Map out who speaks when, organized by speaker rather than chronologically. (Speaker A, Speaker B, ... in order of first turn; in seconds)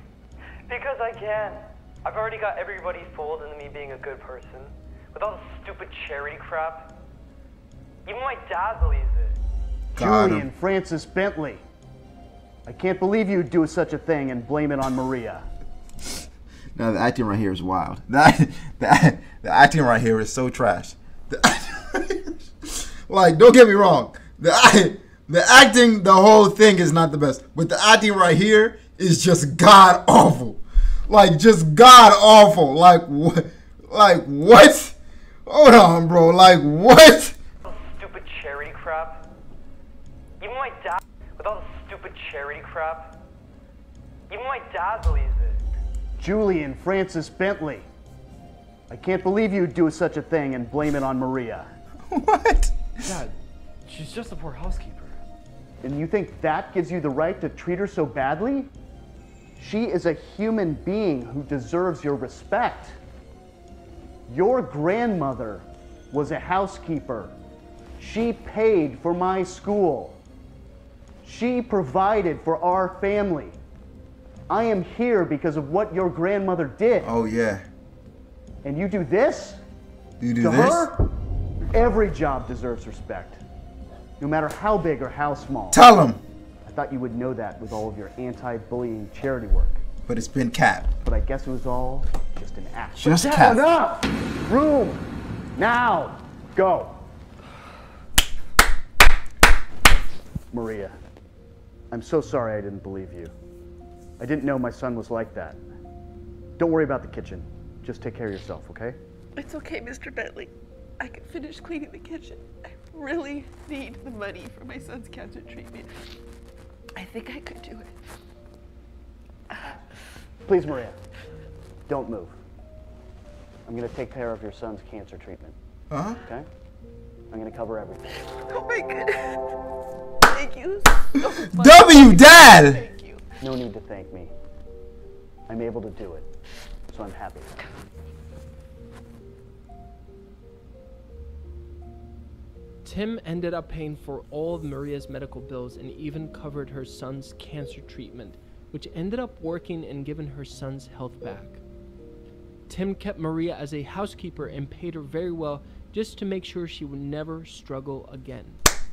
Speaker A: 0.7-6.9, 8.1-9.4, 37.6-39.2, 40.4-43.2, 44.3-45.7, 53.0-53.3, 53.9-55.2, 93.2-93.6
Speaker B: 9.9-10.5, 16.8-37.4, 52.1-53.1, 77.0-77.7, 80.2-80.9, 85.7-86.2, 90.1-90.9, 93.0-93.6, 125.9-126.2, 131.2-132.8
Speaker C: 10.0-11.6, 12.7-15.4, 46.2-47.9, 48.9-51.7, 55.8-58.7, 59.6-63.0, 64.3-67.3, 68.0-70.2, 71.2-73.6, 74.5-77.1, 78.6-79.6, 80.4-81.1, 81.7-83.4, 84.2-85.8, 86.7-89.8, 91.0-95.0, 95.6-97.0, 100.5-101.0, 101.9-103.3, 104.2-105.6, 106.6-109.0, 120.5-121.0, 121.9-122.3, 123.7-125.5, 126.2-126.5, 127.3-128.2, 133.4-134.3, 135.5-136.3, 136.9-137.5
Speaker D: 109.4-115.9, 117.0-117.9, 128.4-129.4, 130.3-133.3
Speaker E: 142.8-151.6, 152.7-158.6